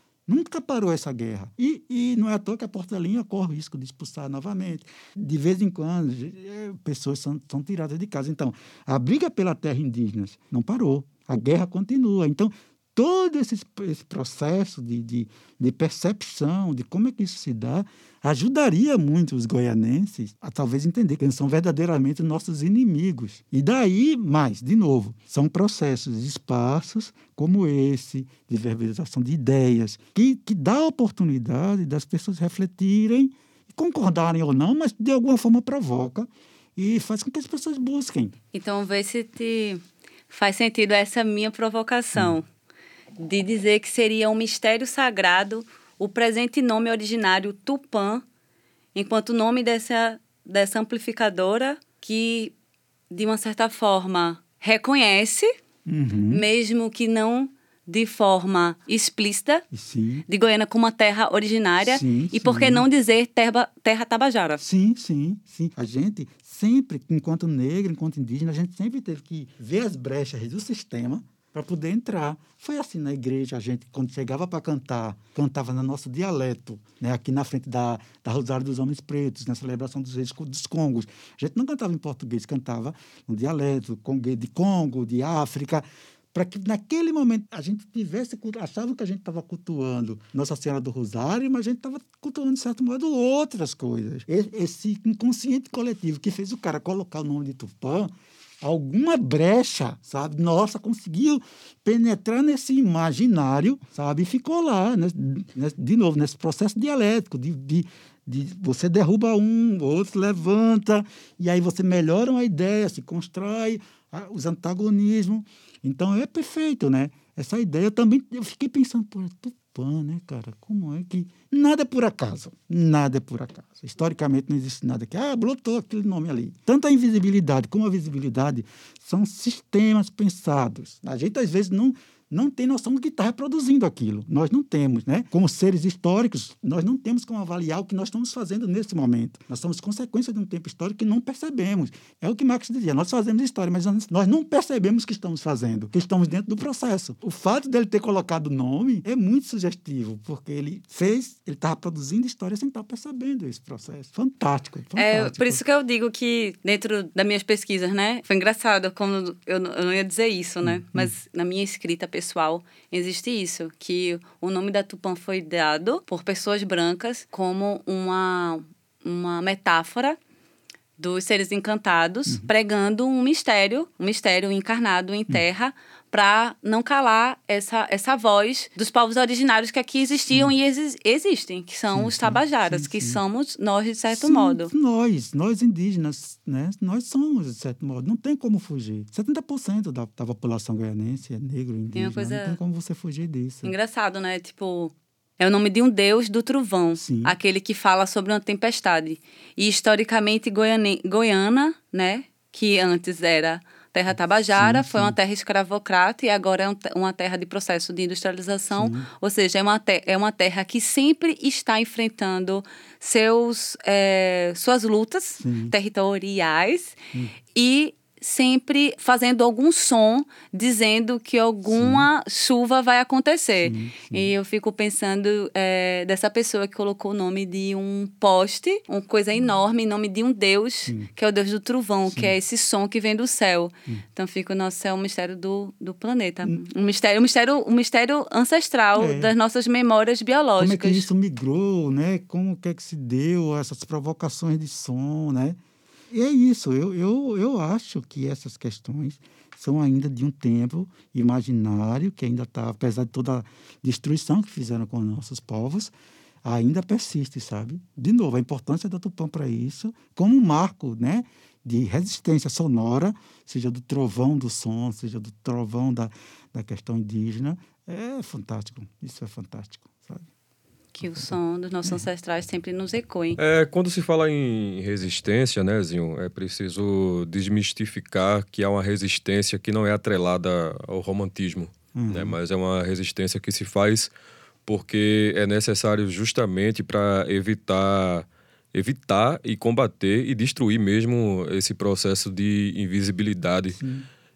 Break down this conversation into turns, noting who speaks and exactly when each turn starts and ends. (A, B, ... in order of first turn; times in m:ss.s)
0:00.3-0:38.3 A
0:38.5-0:42.5 B
0:43.2-0:48.2 B
0:49.0-0:52.6 B
0:53.1-0:55.6 B
0:55.9-0:56.4 A
0:56.3-0:59.6 B
0:59.7-1:00.3 A
1:00.3-1:04.6 B
1:01.8-1:02.8 A
1:04.6-2:35.6 A
2:35.0-2:50.2 B
2:40.6-2:41.1 A
2:51.0-3:04.7 B
3:01.9-3:03.2 A
3:04.1-3:13.7 A
3:12.0-3:12.6 B
3:13.6-3:37.0 B
3:17.0-3:17.4 A
3:24.5-3:25.2 A
3:28.7-3:29.1 A
3:35.4-3:35.7 A
3:37.5-4:01.1 B
3:41.7-3:42.1 A
3:43.6-3:44.3 A
3:52.1-3:52.3 A
3:59.0-3:59.3 A
4:00.6-4:05.6 A
4:06.1-4:15.9 A
4:16.4-4:30.3 A
4:30.9-4:33.4 B
4:31.0-4:32.0 A
4:33.4-4:44.1 C
4:42.0-4:42.4 A
4:44.7-4:53.8 C
4:53.7-4:54.1 A